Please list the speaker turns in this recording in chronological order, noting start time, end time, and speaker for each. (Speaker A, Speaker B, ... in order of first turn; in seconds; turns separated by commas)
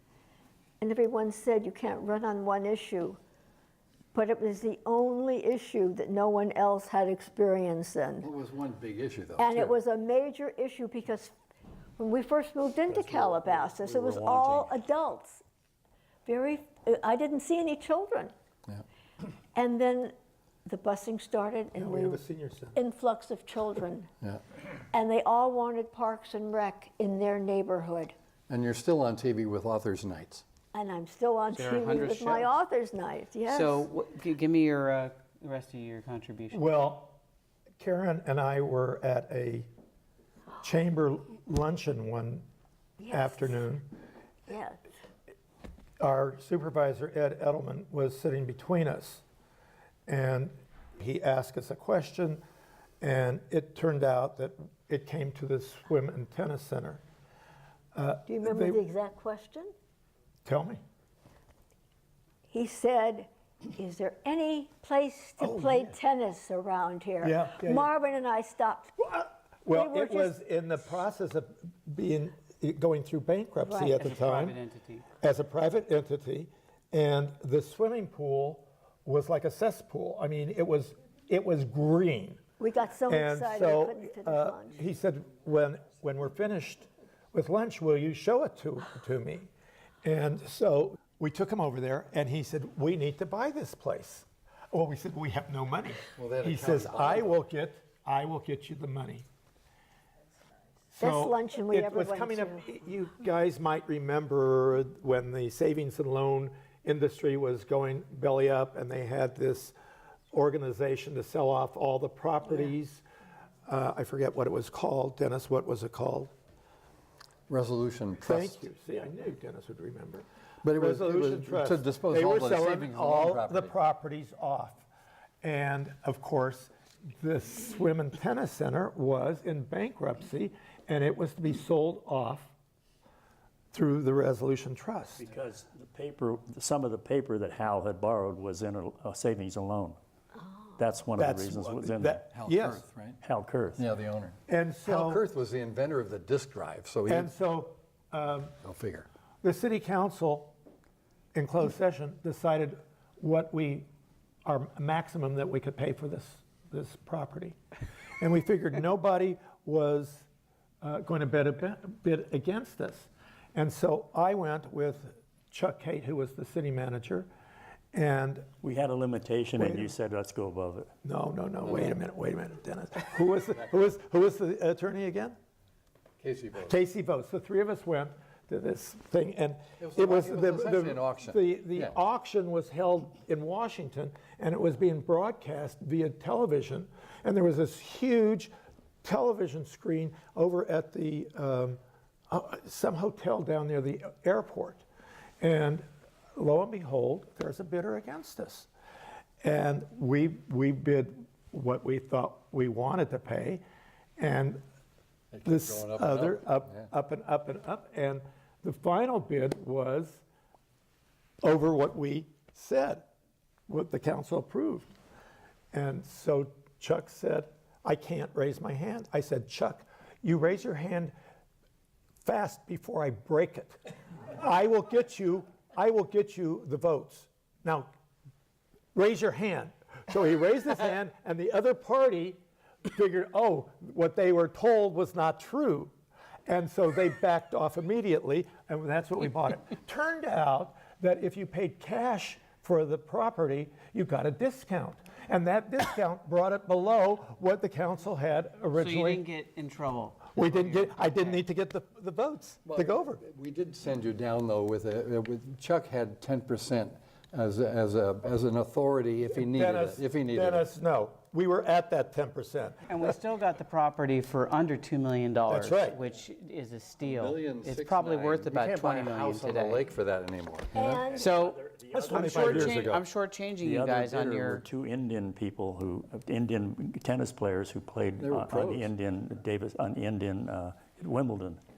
Speaker A: 0.8-3.2, Speaker A: 4.1-8.3, Speaker B: 8.2-9.8, Speaker A: 9.4-11.3, Speaker A: 12.0-15.4, Speaker B: 12.9-14.8, Speaker A: 16.2-18.3, Speaker A: 19.5-20.1, Speaker A: 20.6-22.2, Speaker C: 21.8-22.8, Speaker A: 22.7-24.1, Speaker A: 24.9-28.1, Speaker B: 28.5-30.4, Speaker A: 30.7-33.9, Speaker D: 31.5-32.5, Speaker D: 33.5-36.6, Speaker C: 36.5-37.2, Speaker C: 37.8-39.7, Speaker C: 40.6-42.4, Speaker A: 43.0-43.6, Speaker C: 43.1-43.9, Speaker A: 44.5-44.8, Speaker C: 46.0-49.2, Speaker C: 50.1-52.4, Speaker C: 53.0-57.0, Speaker C: 57.9-58.8, Speaker A: 58.3-59.7, Speaker C: 60.4-60.8, Speaker A: 62.5-69.0, Speaker C: 65.4-66.0, Speaker C: 67.2-67.9, Speaker C: 69.0-74.6, Speaker A: 69.7-70.3, Speaker A: 73.6-74.0, Speaker D: 74.0-75.0, Speaker C: 75.2-82.4, Speaker A: 82.6-84.7, Speaker C: 83.1-89.5, Speaker C: 90.0-99.2, Speaker B: 96.2-97.4, Speaker C: 100.9-109.8, Speaker A: 101.0-102.6, Speaker C: 110.3-113.0, Speaker C: 113.7-116.3, Speaker B: 117.5-118.7, Speaker C: 118.2-124.9, Speaker B: 120.6-123.7, Speaker C: 125.4-132.5, Speaker C: 133.7-135.2, Speaker E: 135.2-140.0, Speaker E: 140.8-142.2, Speaker C: 141.2-142.8, Speaker B: 142.3-143.2, Speaker E: 143.2-143.8, Speaker B: 143.8-147.3, Speaker C: 144.5-145.2, Speaker C: 147.1-148.5, Speaker B: 148.6-149.1, Speaker C: 149.4-150.5, Speaker C: 151.3-153.9, Speaker C: 154.4-157.6, Speaker C: 158.2-160.3, Speaker C: 160.8-167.3, Speaker C: 167.9-168.5, Speaker E: 168.6-170.9, Speaker C: 169.6-169.9, Speaker C: 171.0-175.4, Speaker B: 171.6-171.9, Speaker B: 176.2-176.8, Speaker C: 176.7-188.5, Speaker B: 179.8-182.0, Speaker C: 189.0-191.8, Speaker C: 192.3-194.8, Speaker C: 195.4-198.7, Speaker C: 199.4-203.6, Speaker C: 204.2-204.6, Speaker B: 205.3-206.9, Speaker C: 205.4-210.2, Speaker C: 211.4-213.0, Speaker C: 213.7-214.9, Speaker C: 215.7-221.1, Speaker C: 222.2-223.8, Speaker C: 224.3-227.9, Speaker C: 228.9-235.9, Speaker C: 236.5-249.2, Speaker D: 248.7-251.4, Speaker C: 250.3-253.2, Speaker B: 252.7-260.7, Speaker C: 259.3-263.0, Speaker D: 262.9-269.9, Speaker C: 265.5-266.0, Speaker B: 267.0-270.9, Speaker A: 270.7-271.3, Speaker E: 270.7-273.0, Speaker D: 271.1-271.6, Speaker C: 271.9-272.9, Speaker D: 272.1-274.6, Speaker B: 272.5-273.0, Speaker E: 273.6-281.6, Speaker B: 278.2-278.9